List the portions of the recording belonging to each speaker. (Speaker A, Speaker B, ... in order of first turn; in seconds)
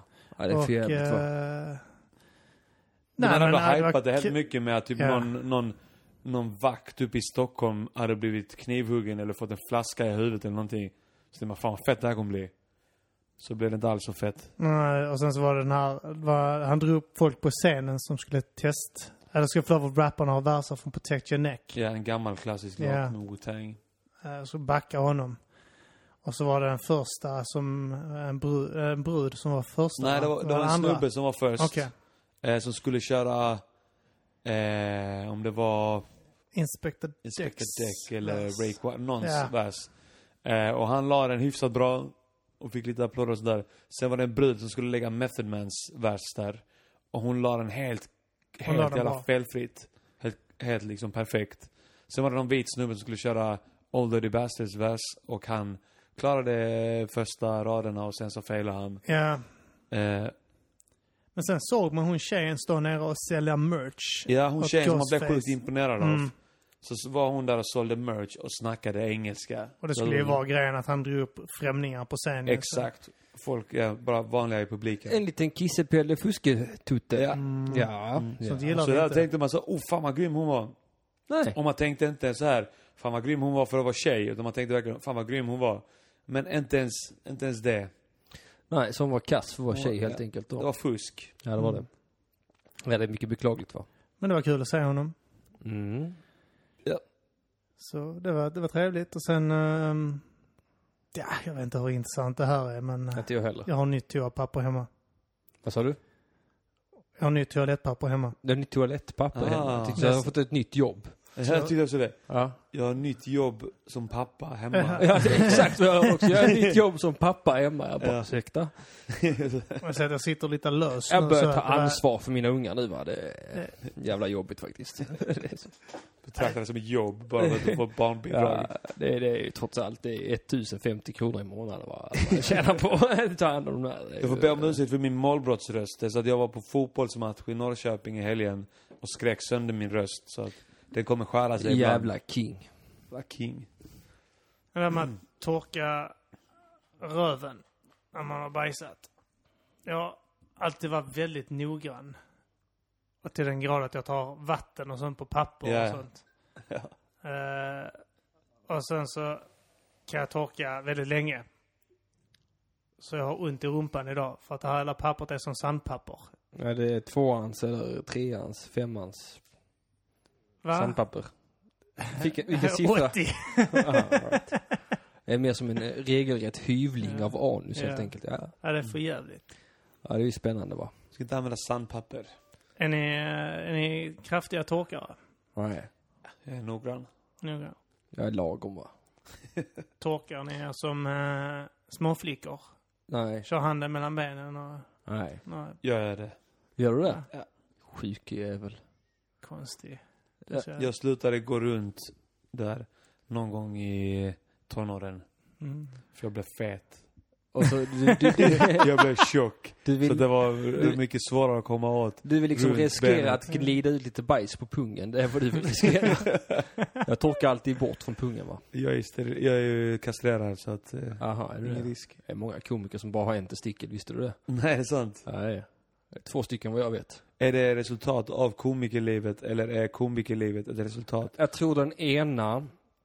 Speaker A: 0.3-1.3, 75.1-78.7, 81.3-81.6, 88.7-90.7, 91.4-91.9, 92.8-93.9, 95.6-96.2, 103.1-103.7, 105.6-106.0, 108.4-111.3, 112.3-112.6, 115.0-119.1, 121.1-125.8, 127.4-127.8, 128.3-134.8, 141.6-142.7, 166.5-169.4, 170.7-171.3, 172.1-174.5, 175.2-178.5, 180.0-180.9, 185.6-185.9, 188.1-188.9, 193.1-193.4, 195.1-195.4, 196.8-197.3, 197.8-198.8, 207.5-209.0, 209.8-211.0, 212.2-218.6, 221.2-224.4, 225.2-227.2, 231.3-232.7
Speaker B: 0.5-1.8, 3.2-4.3, 5.0-5.3, 14.6-21.8, 22.8-23.1, 24.2-25.4, 26.2-31.9, 36.5-39.5, 48.7-49.2, 59.0-59.5, 61.3-66.3, 69.8-72.9, 77.3-79.2, 91.6-91.8, 94.2-95.1, 97.8-100.2, 101.1-104.9, 107.2-108.4, 110.0-110.3, 111.4-111.7, 114.7-115.8, 119.8-122.0, 144.7-146.1, 147.0-149.1, 149.8-152.2, 153.2-156.2, 157.2-157.9, 158.7-159.4, 160.1-161.4, 163.0-166.3, 170.6-171.0, 172.1-174.6, 177.0-179.4, 182.8-185.2, 187.4-187.8, 190.0-192.7, 193.4-194.9, 195.4-195.8, 199.4-200.9, 205.6-205.9
Speaker C: 3.2-12.5, 13.4-14.5, 21.7-23.8, 30.0-33.6, 34.4-36.0, 37.2-59.0, 59.9-60.3, 64.3-66.3, 66.8-70.4, 72.5-75.2, 77.1-77.4, 78.1-80.7, 81.5-87.9, 89.7-91.3, 109.3-110.0, 111.3-115.7, 116.4-116.8, 118.0-118.3, 119.1-119.8, 126.2-128.7, 134.2-142.1, 143.1-143.7, 155.6-156.0, 181.1-182.3, 186.4-187.1, 195.8-196.3, 200.8-205.2, 206.1-207.0, 208.4-213.4, 216.0-216.6, 218.7-222.1, 224.5-225.2, 227.4-231.3